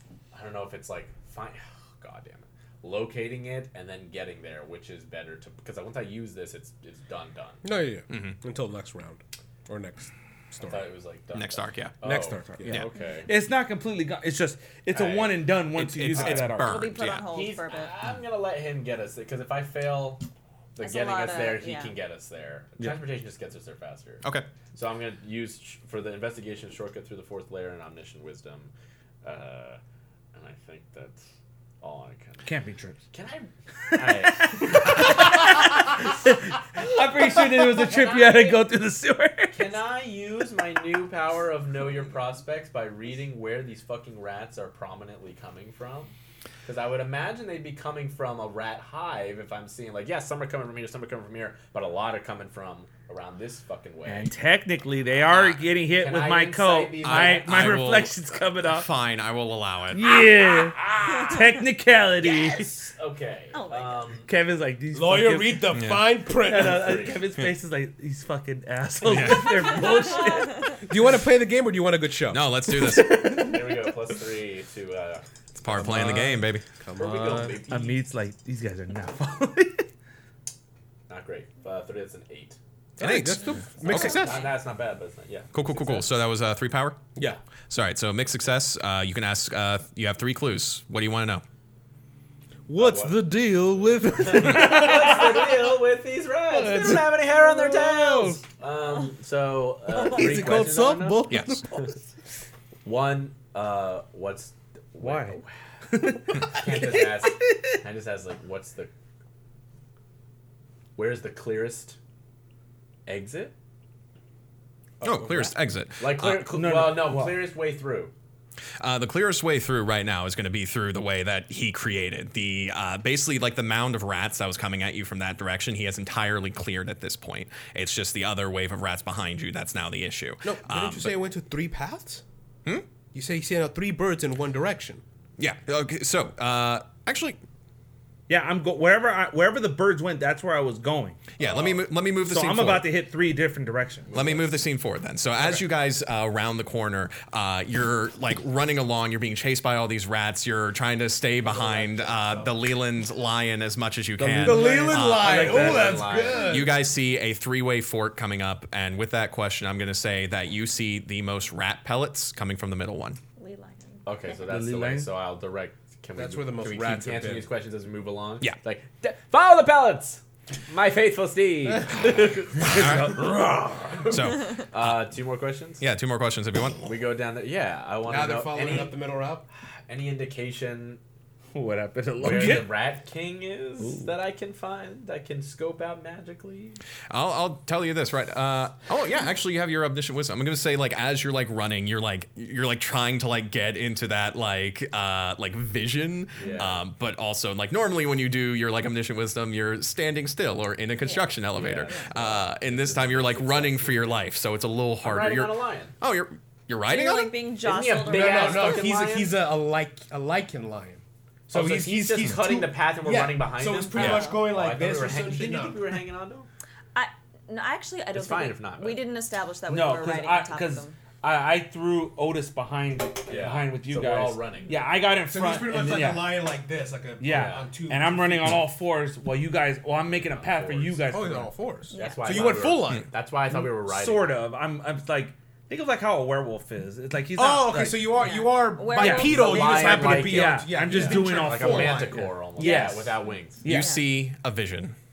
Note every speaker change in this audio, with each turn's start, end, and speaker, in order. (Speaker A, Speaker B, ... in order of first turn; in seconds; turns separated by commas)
Speaker A: 0.3-7.6, Speaker B: 7.6-10.9, Speaker C: 8.1-8.4, Speaker A: 10.6-13.3, Speaker C: 11.3-11.9, Speaker B: 12.0-12.8, Speaker D: 13.3-16.8, Speaker A: 14.9-15.6, Speaker C: 15.7-17.3, Speaker A: 16.1-16.5, Speaker E: 16.6-17.9, Speaker A: 17.3-28.7, Speaker E: 20.8-21.9, Speaker C: 24.2-24.5, Speaker A: 29.2-29.8, Speaker A: 30.3-31.2, Speaker A: 31.8-32.5, Speaker D: 32.4-33.0, Speaker A: 33.1-35.5, Speaker D: 33.9-39.7, Speaker A: 37.3-38.6, Speaker A: 39.5-46.1, Speaker A: 46.6-54.3, Speaker D: 54.0-58.9, Speaker A: 55.3-58.0, Speaker C: 57.0-60.1, Speaker D: 59.9-62.7, Speaker A: 60.4-61.4, Speaker A: 62.2-64.3, Speaker E: 63.5-64.2, Speaker D: 64.2-70.8, Speaker B: 64.9-67.0, Speaker C: 65.7-66.1, Speaker A: 66.5-67.3, Speaker C: 69.0-69.6, Speaker E: 70.1-70.7, Speaker B: 70.8-72.6, Speaker C: 72.3-73.5, Speaker A: 73.2-75.2, Speaker C: 75.6-76.6, Speaker B: 75.7-77.6, Speaker A: 77.0-78.0, Speaker D: 77.7-79.9, Speaker A: 81.1-82.6, Speaker B: 83.0-84.5, Speaker C: 83.0-84.2, Speaker A: 83.8-86.1, Speaker C: 85.5-87.0, Speaker C: 87.7-91.4, Speaker B: 92.7-95.6, Speaker A: 92.8-93.3, Speaker A: 94.0-101.9, Speaker B: 96.5-98.4, Speaker B: 100.0-101.7, Speaker C: 101.3-101.6, Speaker A: 102.8-105.5, Speaker D: 105.0-105.4, Speaker D: 105.9-107.8, Speaker A: 106.4-108.9, Speaker A: 111.0-112.0, Speaker A: 113.0-113.5, Speaker B: 115.0-115.5, Speaker C: 115.0-116.4, Speaker A: 116.0-118.1, Speaker D: 116.3-117.5, Speaker C: 118.8-131.1, Speaker B: 130.4-132.2, Speaker B: 133.1-135.0, Speaker C: 135.4-137.4, Speaker D: 138.3-141.3, Speaker C: 141.4-142.9, Speaker B: 141.4-141.7, Speaker D: 142.2-144.2, Speaker C: 144.1-155.6, Speaker A: 151.4-152.5, Speaker D: 154.2-156.3, Speaker B: 154.2-156.8, Speaker A: 155.2-156.7, Speaker C: 156.4-163.2, Speaker E: 163.4-164.1, Speaker A: 164.0-175.8, Speaker D: 164.4-165.1, Speaker B: 166.1-167.5, Speaker D: 172.6-173.8, Speaker C: 172.7-173.2, Speaker C: 174.1-175.1, Speaker C: 175.8-176.9, Speaker A: 176.8-179.0, Speaker B: 178.1-179.4, Speaker A: 179.9-181.0, Speaker D: 181.5-182.8, Speaker A: 182.2-186.8, Speaker D: 183.8-184.1, Speaker C: 187.1-207.4, Speaker A: 196.3-196.8, Speaker E: 201.0-201.3, Speaker A: 201.5-204.2, Speaker A: 205.0-205.9, Speaker E: 206.9-208.9, Speaker A: 207.6-209.3, Speaker B: 208.1-215.8, Speaker A: 211.5-216.5, Speaker C: 213.9-214.3, Speaker E: 213.9-214.5, Speaker E: 216.9-221.0, Speaker A: 218.1-219.0, Speaker D: 219.7-226.4, Speaker A: 223.3-224.8, Speaker B: 225.3-228.6, Speaker D: 227.2-231.5, Speaker A: 227.2-227.7, Speaker A: 230.1-231.1, Speaker B: 231.1-233.1, Speaker E: 231.9-232.7, Speaker A: 231.9-234.4, Speaker D: 233.5-238.1, Speaker B: 237.3-242.4, Speaker E: 238.1-239.7, Speaker D: 238.9-243.9, Speaker A: 239.2-243.6, Speaker C: 243.7-244.9, Speaker E: 243.7-244.0